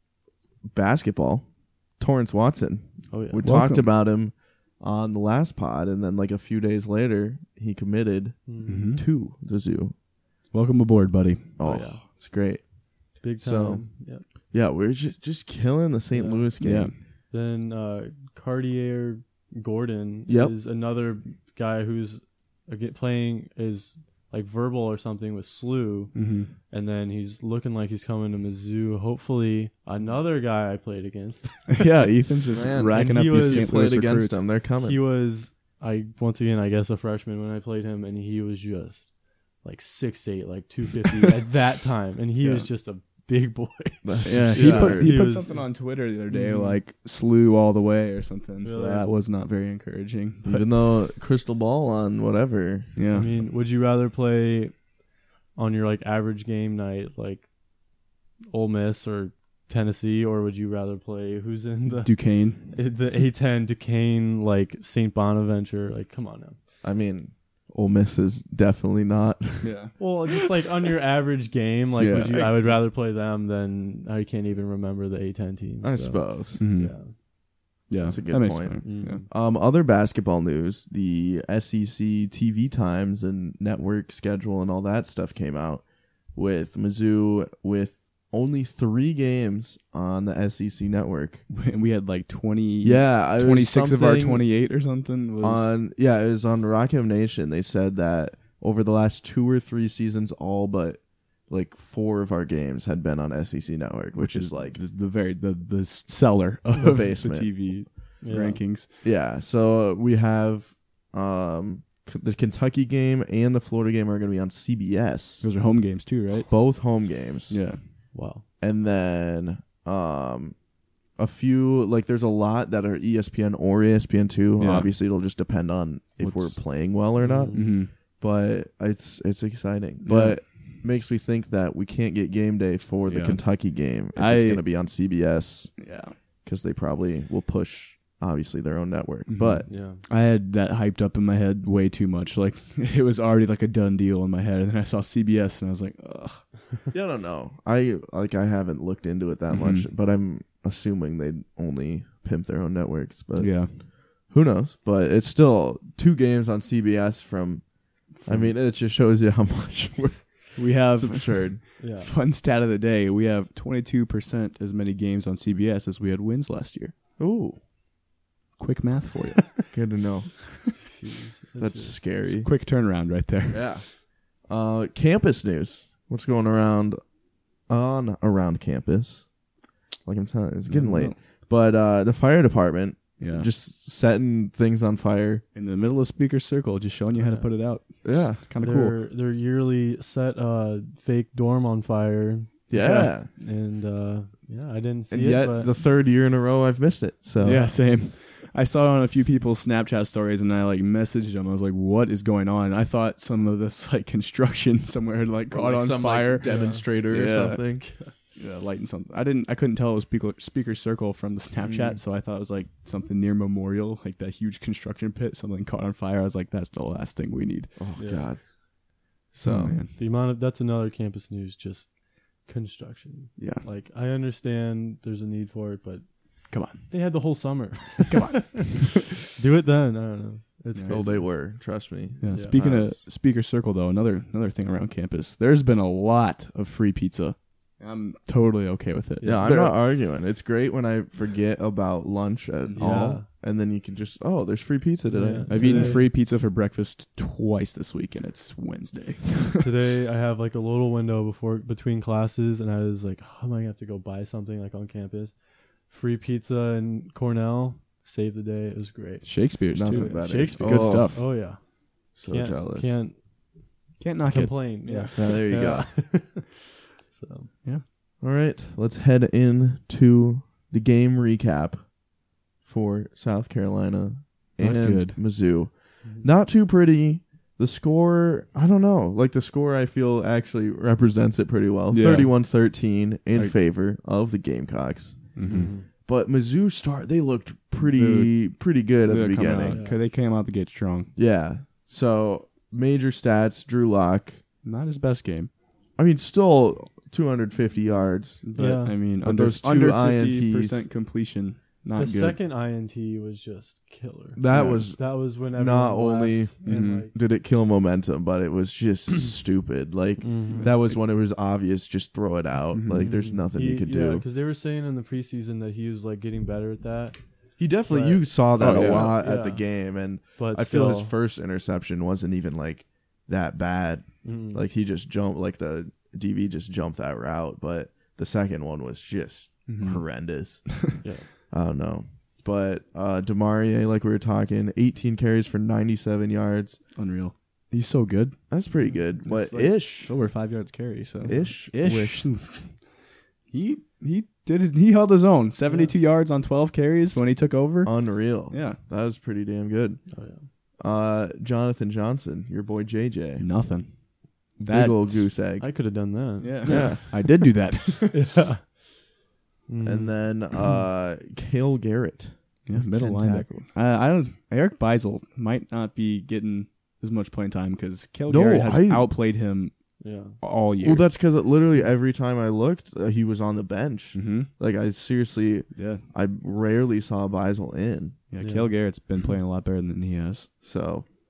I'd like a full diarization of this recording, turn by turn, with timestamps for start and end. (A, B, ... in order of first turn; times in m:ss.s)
0:00.7-0:10.0 A
0:03.1-0:03.5 B
0:03.4-0:03.9 C
0:08.5-0:08.9 B
0:08.7-0:09.0 C
0:10.5-0:11.6 C
0:11.6-0:16.9 A
0:11.6-0:12.0 B
0:13.2-0:14.2 B
0:16.1-0:32.1 B
0:16.6-0:16.9 C
0:20.3-0:20.6 A
0:26.2-0:26.5 C
0:31.7-0:34.5 C
0:32.5-0:35.0 A
0:32.8-0:33.9 B
0:34.8-0:46.8 B
0:42.4-0:42.7 A
0:44.0-0:45.2 A
0:44.2-0:50.7 C
0:48.6-0:49.1 B
0:50.4-0:53.0 A
0:53.0-0:53.3 C
0:53.1-0:54.9 B
0:55.6-0:57.5 B
0:58.5-1:06.6 B
1:02.0-1:02.7 C
1:06.8-1:10.0 A
1:09.6-1:09.9 C
1:10.0-1:17.2 B
1:12.0-1:12.6 A
1:12.0-1:12.5 C
1:15.8-1:16.6 A
1:16.6-1:17.3 C
1:17.9-1:19.2 C
1:17.9-1:31.5 A
1:18.8-1:19.3 B
1:31.5-1:35.7 C
1:32.8-1:34.6 A
1:35.4-1:44.8 A
1:44.1-1:49.0 C
1:46.8-1:47.8 A
1:48.2-1:48.6 B
1:49.0-1:55.5 A
1:55.4-1:57.8 C
1:56.4-1:57.7 A
1:58.1-1:58.4 B
1:58.6-2:00.6 A
2:01.2-2:19.7 A
2:04.6-2:04.9 C
2:06.2-2:06.9 C
2:07.2-2:07.8 B
2:07.5-2:07.9 C
2:10.0-2:10.6 C
2:13.1-2:14.8 C
2:15.8-2:16.2 C
2:19.3-2:26.7 C
2:19.7-2:20.0 B
2:26.9-2:41.6 A
2:29.5-2:29.9 C
2:33.4-2:33.8 C
2:38.2-2:38.5 C
2:40.6-2:47.0 C
2:41.8-2:42.1 B
2:47.2-2:47.6 A
2:48.6-2:49.8 C
2:49.7-2:50.8 A
2:50.8-2:52.0 B
2:51.6-2:52.5 A
2:52.2-2:53.8 C
2:53.5-2:57.1 A
2:57.7-2:59.3 A
3:00.0-3:05.4 A
3:00.7-3:01.2 C
3:03.2-3:03.5 C
3:05.5-3:09.0 C
3:07.1-3:08.0 B
3:08.0-3:08.4 A
3:08.6-3:15.7 B
3:12.7-3:13.3 A
3:15.1-3:17.7 A
3:17.4-3:37.8 C
3:25.5-3:27.9 A
3:26.4-3:26.9 B
3:27.8-3:28.1 B
3:31.6-3:32.0 A
3:37.8-3:38.7 A
3:38.0-3:38.3 B
3:39.3-3:39.8 A
3:39.4-3:39.9 C
3:39.9-3:48.8 B
3:43.4-3:43.7 C
3:46.5-3:47.4 C
3:48.1-3:49.0 C
3:49.3-3:51.4 B
3:50.7-3:51.2 C
3:50.9-3:53.0 A
3:52.2-3:59.7 C
3:52.3-3:52.7 B
3:59.2-3:59.7 B
3:59.3-4:06.0 A
4:02.8-4:03.3 B
4:02.8-4:03.1 C
4:05.1-4:06.1 B
4:05.5-4:09.6 C
4:09.6-4:23.3 B
4:19.2-4:21.4 C
4:19.7-4:21.4 A
4:22.2-4:23.0 A
4:24.0-4:25.3 C
4:24.2-4:27.5 B
4:25.1-4:26.0 A
4:28.2-4:32.0 A
4:32.6-4:49.8 A
4:34.6-4:35.2 C
4:36.0-4:36.3 B
4:41.9-4:42.5 C
4:45.4-4:45.8 C
4:45.5-4:45.9 B
4:47.9-4:51.1 C
4:49.6-4:50.0 B
4:51.2-4:54.4 A
4:54.6-4:55.5 C
4:56.0-5:00.9 A
4:58.4-5:02.4 C
4:58.6-4:59.0 B
5:02.0-5:07.2 B
5:04.4-5:14.2 A
5:04.5-5:04.9 C
5:06.6-5:07.1 C
5:10.2-5:10.8 B
5:10.5-5:10.8 C
5:12.7-5:13.2 C
5:13.0-5:21.1 B
5:17.6-5:36.8 A
5:18.6-5:19.2 C
5:24.2-5:24.6 B
5:29.7-5:30.7 C
5:31.0-5:31.3 B
5:37.0-5:38.5 C
5:38.5-5:40.2 A
5:38.8-5:39.1 B
5:39.2-5:48.8 C
5:41.2-5:42.4 A
5:45.7-5:46.0 B
5:47.8-5:53.5 A
5:50.1-5:50.5 B
5:53.4-5:55.4 C
5:54.6-5:55.7 A
5:55.6-5:57.3 B
5:56.4-5:58.2 C
5:56.7-5:57.1 A
5:58.1-5:58.8 B
5:59.7-6:00.3 B
5:59.8-6:03.7 A
6:02.7-6:11.1 C
6:08.3-6:09.1 A
6:10.0-6:10.4 B
6:10.8-6:18.2 A
6:14.1-6:14.5 C
6:15.7-6:16.0 C
6:18.3-6:20.5 C
6:18.4-6:18.7 B
6:20.6-6:21.1 A